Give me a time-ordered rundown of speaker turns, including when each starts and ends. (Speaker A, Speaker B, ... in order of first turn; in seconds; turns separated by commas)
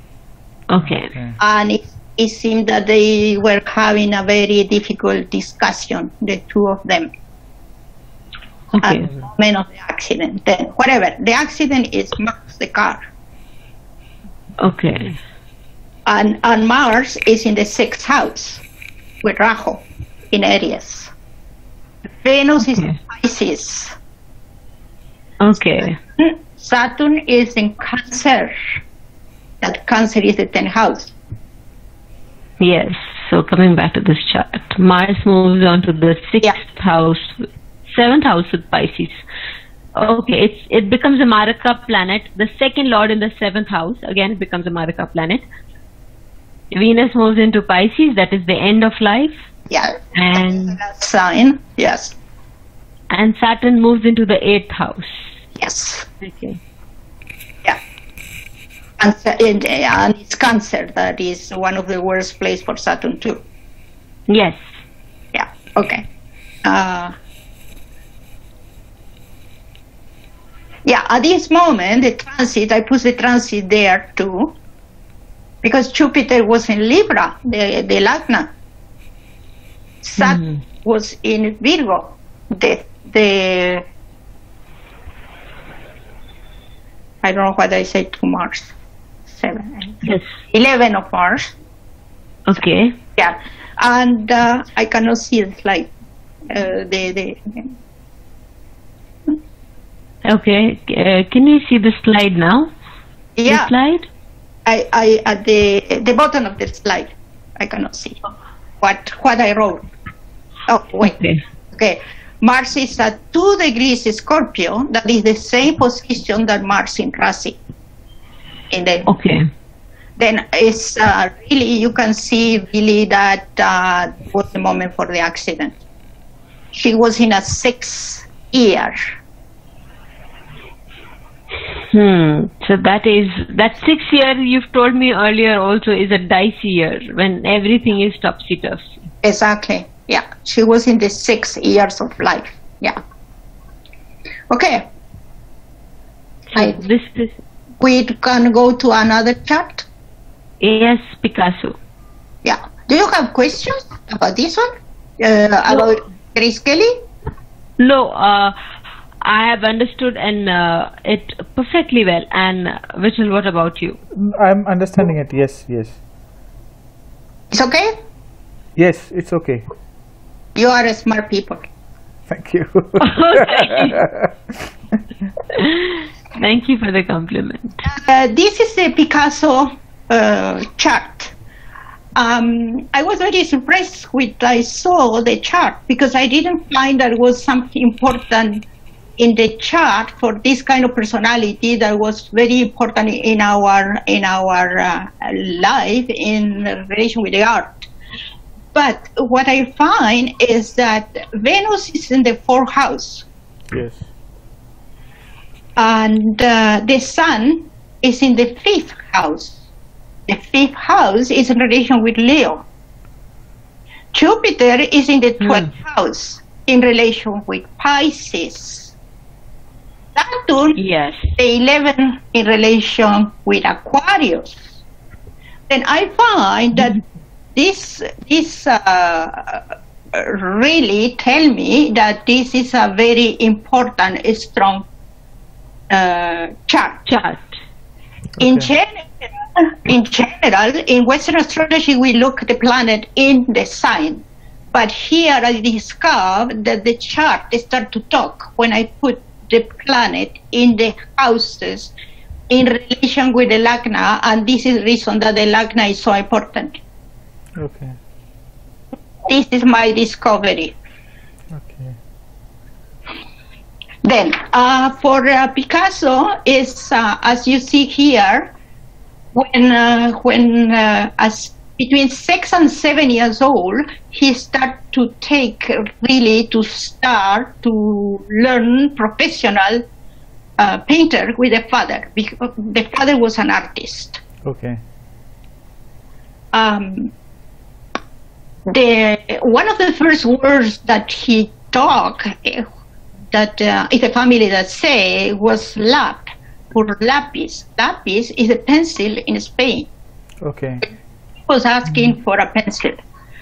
Speaker A: 0.7-1.1, Speaker B: 0.8-1.4, Speaker C: 1.4-7.1, Speaker A: 8.7-9.1, Speaker C: 8.8-13.0, Speaker A: 14.6-15.1, Speaker C: 16.1-18.6, Speaker C: 19.2-21.1, Speaker C: 22.2-23.9, Speaker A: 25.4-26.0, Speaker C: 26.2-28.6, Speaker C: 29.6-31.1, Speaker A: 32.6-39.2, Speaker A: 39.9-45.4, Speaker A: 46.7-49.4, Speaker C: 49.7-52.1, Speaker A: 50.1-50.8, Speaker A: 53.1-55.3, Speaker C: 55.6-56.1, Speaker A: 56.2-56.6, Speaker C: 59.0-63.4, Speaker A: 64.3-64.6, Speaker C: 65.3-66.0, Speaker C: 66.6-67.1, Speaker C: 70.8-74.5, Speaker C: 75.6-78.5, Speaker C: 80.0-83.8, Speaker A: 80.2-80.6, Speaker C: 87.2-88.7, Speaker C: 89.3-91.5, Speaker A: 90.0-90.3, Speaker A: 92.5-93.0, Speaker C: 93.2-95.9, Speaker C: 96.5-97.7, Speaker A: 100.2-102.7, Speaker C: 103.4-103.7, Speaker A: 103.5-104.1, Speaker C: 104.7-108.2, Speaker C: 108.8-109.9, Speaker C: 110.7-111.2, Speaker A: 111.0-111.4, Speaker C: 111.7-117.6, Speaker C: 118.7-119.1, Speaker A: 119.1-119.5, Speaker C: 120.2-125.8, Speaker C: 126.7-129.2, Speaker A: 131.9-138.9, Speaker C: 139.2-143.0, Speaker C: 144.5-144.9, Speaker A: 146.5-147.3, Speaker C: 146.5-146.8, Speaker C: 147.8-149.8, Speaker A: 150.6-151.8, Speaker C: 152.4-156.9, Speaker A: 157.8-158.5, Speaker A: 159.2-164.0, Speaker B: 164.1-166.0, Speaker C: 167.5-167.9, Speaker B: 168.8-169.7, Speaker C: 170.6-171.7, Speaker B: 172.3-174.5, Speaker A: 173.0-174.0, Speaker A: 175.5-177.7, Speaker C: 177.8-181.3, Speaker C: 182.1-188.6, Speaker C: 189.2-197.9, Speaker C: 198.7-203.2, Speaker B: 203.7-204.1, Speaker C: 205.8-209.5, Speaker C: 210.3-212.6, Speaker C: 214.1-218.9, Speaker A: 215.4-215.7, Speaker C: 220.2-220.8, Speaker A: 220.8-221.3, Speaker C: 221.4-224.6, Speaker C: 225.7-227.0, Speaker C: 227.6-234.8, Speaker C: 235.9-237.0, Speaker A: 237.1-237.6, Speaker B: 238.3-238.7, Speaker C: 238.4-251.9, Speaker C: 252.5-256.8, Speaker B: 257.6-258.0, Speaker C: 259.2-260.7, Speaker B: 261.5-262.0, Speaker C: 264.0-268.5, Speaker C: 269.3-279.8, Speaker C: 280.6-284.2, Speaker B: 284.4-284.8, Speaker C: 286.5-287.1, Speaker C: 288.7-292.7, Speaker C: 293.3-299.9, Speaker B: 300.4-300.8, Speaker C: 301.4-303.0